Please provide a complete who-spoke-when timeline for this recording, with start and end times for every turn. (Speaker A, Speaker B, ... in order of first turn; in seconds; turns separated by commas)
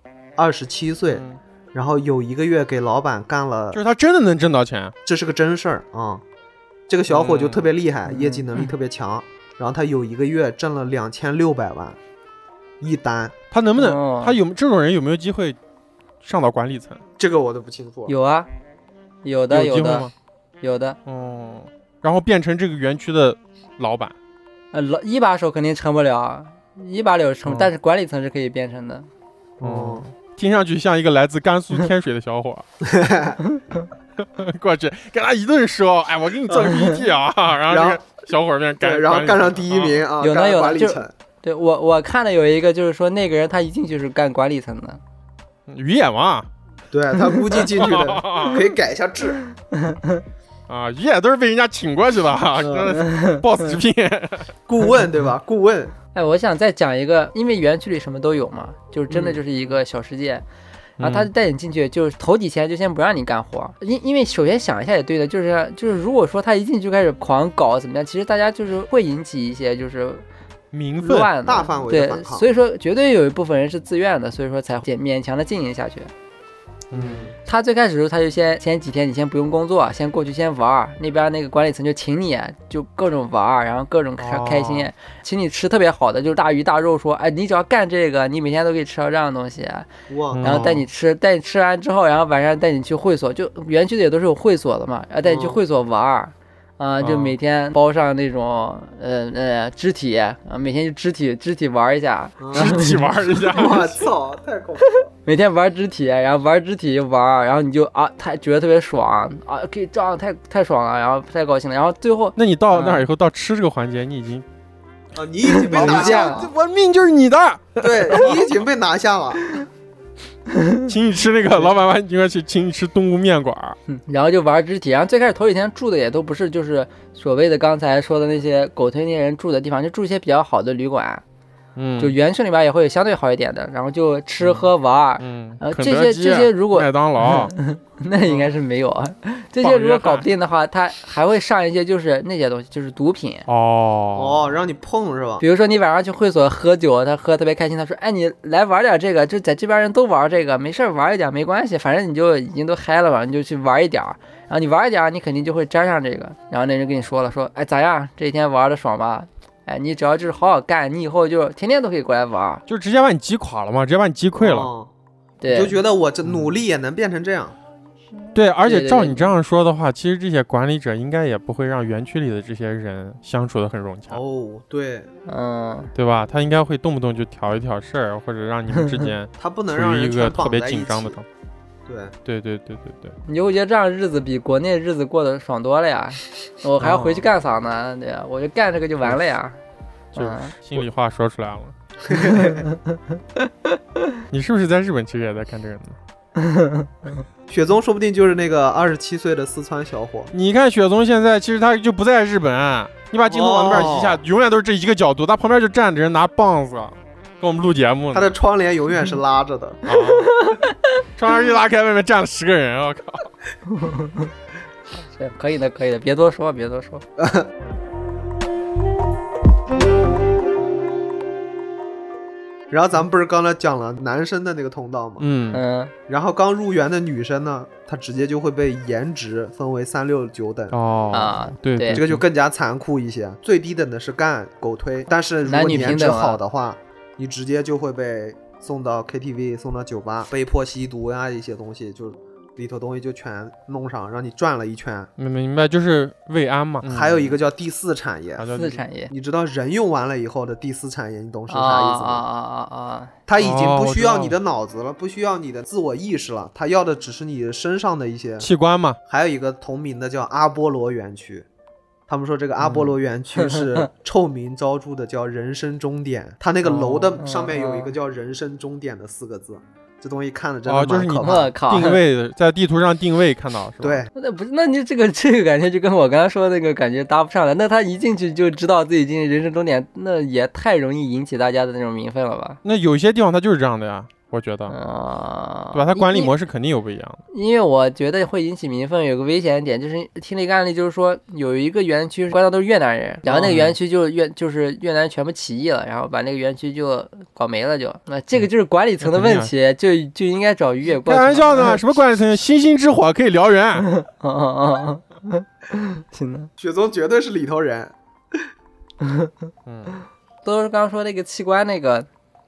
Speaker A: 0.4-3.8, Speaker B: 1.1-1.4, Speaker B: 3.7-4.9, Speaker A: 5.1-6.2, Speaker A: 6.9-12.0, Speaker B: 7.1-7.7, Speaker C: 8.1-8.7, Speaker A: 12.8-13.3, Speaker B: 13.5-15.6, Speaker C: 13.8-14.4, Speaker B: 16.2-17.0, Speaker A: 17.2-18.1, Speaker C: 18.1-18.5, Speaker C: 19.2-20.1, Speaker B: 19.5-20.1, Speaker C: 20.6-21.0, Speaker B: 21.1-24.1, Speaker C: 24.7-29.1, Speaker B: 29.6-32.6, Speaker A: 29.6-30.0, Speaker A: 32.8-33.4, Speaker C: 33.5-33.8, Speaker B: 34.2-40.1, Speaker A: 37.7-38.0, Speaker A: 38.8-41.1, Speaker C: 40.2-45.0, Speaker B: 45.7-46.5, Speaker A: 46.9-49.4, Speaker B: 47.6-48.6, Speaker C: 49.7-50.2, Speaker B: 50.7-54.5, Speaker A: 52.6-52.9, Speaker C: 53.0-53.4, Speaker A: 54.7-55.9, Speaker C: 56.1-60.4, Speaker A: 59.1-59.4, Speaker B: 61.0-61.3, Speaker C: 61.0-70.2, Speaker B: 70.7-71.3, Speaker C: 71.0-76.1, Speaker A: 71.4-72.5, Speaker B: 76.9-77.3, Speaker A: 76.9-77.3, Speaker C: 77.4-89.9, Speaker B: 84.2-84.9, Speaker A: 90.1-90.8, Speaker B: 90.3-90.8, Speaker C: 90.4-103.1, Speaker A: 95.2-95.6, Speaker B: 97.0-97.4, Speaker A: 102.4-105.1, Speaker B: 102.5-104.1, Speaker C: 105.2-113.0, Speaker B: 112.4-114.4, Speaker A: 115.1-116.5, Speaker C: 115.5-116.5, Speaker B: 115.6-118.5, Speaker A: 117.8-119.6, Speaker C: 120.5-120.9, Speaker B: 120.9-123.8, Speaker C: 123.9-131.2, Speaker B: 131.8-132.1, Speaker C: 132.0-143.4, Speaker B: 134.4-137.5, Speaker B: 139.6-140.3, Speaker B: 143.5-144.6, Speaker A: 144.1-145.4, Speaker C: 145.4-162.6, Speaker B: 162.7-164.7, Speaker A: 164.4-164.9, Speaker C: 165.4-165.8, Speaker A: 165.5-167.6, Speaker B: 166.2-166.6, Speaker B: 168.3-174.2, Speaker C: 168.6-169.3, Speaker A: 174.1-175.1, Speaker C: 175.2-175.9, Speaker B: 175.9-181.2, Speaker C: 178.8-179.1, Speaker A: 179.4-181.2, Speaker A: 181.9-182.1, Speaker B: 182.2-183.2, Speaker C: 183.3-189.6, Speaker B: 186.8-187.3, Speaker B: 190.1-191.7, Speaker C: 190.1-190.6, Speaker A: 192.1-192.6, Speaker C: 192.1-194.1, Speaker B: 194.3-196.0, Speaker C: 196.4-197.2, Speaker A: 197.5-200.3, Speaker B: 200.3-208.3, Speaker A: 203.3-204.2, Speaker A: 208.1-209.8, Speaker B: 209.9-210.4, Speaker C: 209.9-210.7, Speaker B: 211.2-213.3, Speaker C: 213.7-214.3, Speaker C: 215.0-217.0, Speaker A: 217.2-217.5, Speaker A: 222.7-225.2, Speaker B: 225.2-225.6, Speaker C: 225.5-225.9, Speaker A: 226.1-230.8, Speaker B: 230.7-232.2, Speaker C: 231.1-232.0, Speaker A: 231.9-245.1, Speaker C: 235.4-236.4, Speaker B: 245.2-247.4, Speaker A: 246.8-248.5, Speaker B: 248.4-248.8, Speaker C: 248.6-249.1, Speaker A: 249.1-252.2, Speaker C: 251.5-253.1, Speaker A: 253.3-258.5, Speaker B: 253.4-254.4, Speaker B: 258.4-259.0, Speaker A: 259.1-261.4, Speaker A: 262.1-271.5, Speaker B: 262.6-262.9, Speaker C: 263.4-263.9, Speaker B: 266.6-267.1, Speaker C: 267.2-267.9, Speaker B: 270.6-274.1, Speaker C: 271.2-272.0, Speaker A: 273.8-274.1, Speaker C: 274.1-282.6, Speaker B: 282.6-284.7, Speaker C: 284.7-286.3, Speaker B: 285.7-287.2, Speaker C: 287.3-301.8, Speaker A: 293.2-293.6, Speaker B: 293.4-293.8, Speaker B: 299.0-299.5, Speaker B: 301.0-303.9, Speaker C: 303.8-306.5, Speaker A: 306.6-308.4, Speaker C: 309.0-309.3, Speaker B: 309.6-310.0, Speaker C: 310.4-312.1